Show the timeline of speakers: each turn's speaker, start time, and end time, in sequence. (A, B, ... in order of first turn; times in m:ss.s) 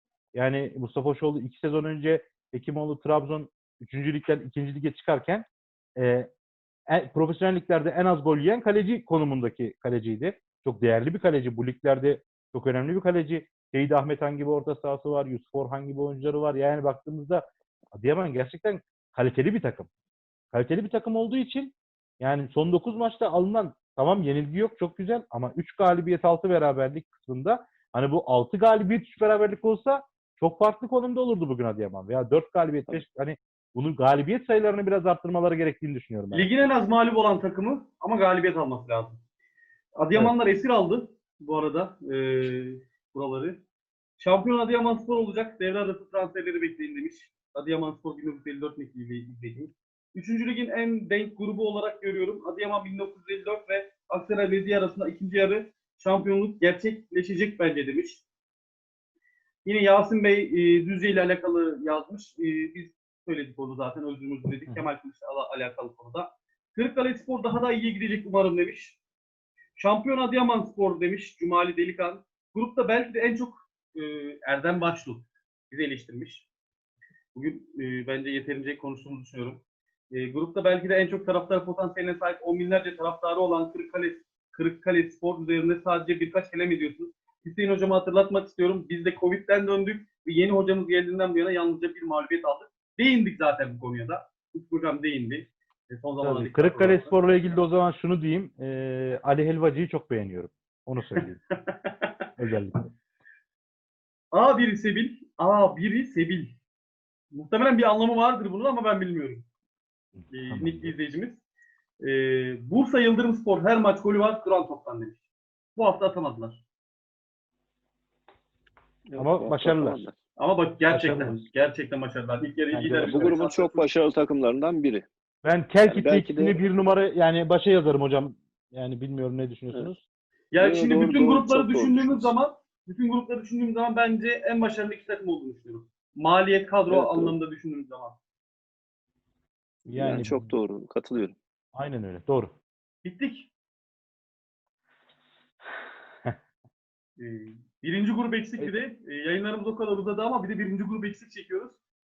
0:00.3-0:05.4 A
0:06.0-0:06.3 A
0:06.9-0:17.4 A
0:18.0-0:19.9 A
0:20.5-0:36.5 A
0:36.3-0:39.2 B
0:40.0-0:43.6 B
0:44.2-0:58.2 B
0:59.6-1:09.0 B
1:09.8-1:16.4 B
1:17.3-1:37.3 B
1:36.2-1:41.4 A
1:41.5-1:42.1 B
1:42.4-1:42.9 A
1:44.3-1:46.5 B
1:47.3-1:49.4 B
1:50.2-1:50.9 A
1:50.3-1:51.4 B
1:52.0-1:55.2 B
1:55.7-1:56.6 B
1:59.1-2:00.1 C
1:59.2-2:00.0 A
2:00.4-2:03.8 B
2:00.9-2:01.4 A
2:02.7-2:03.3 A
2:03.0-2:05.0 C
2:05.4-2:10.0 A
2:05.9-2:06.6 C
2:10.5-2:18.2 B
2:10.6-2:12.3 C
2:16.9-2:17.4 C
2:19.8-2:21.4 C
2:19.9-2:20.5 A
2:21.7-2:22.5 A
2:23.0-2:23.5 B
2:27.2-2:31.8 B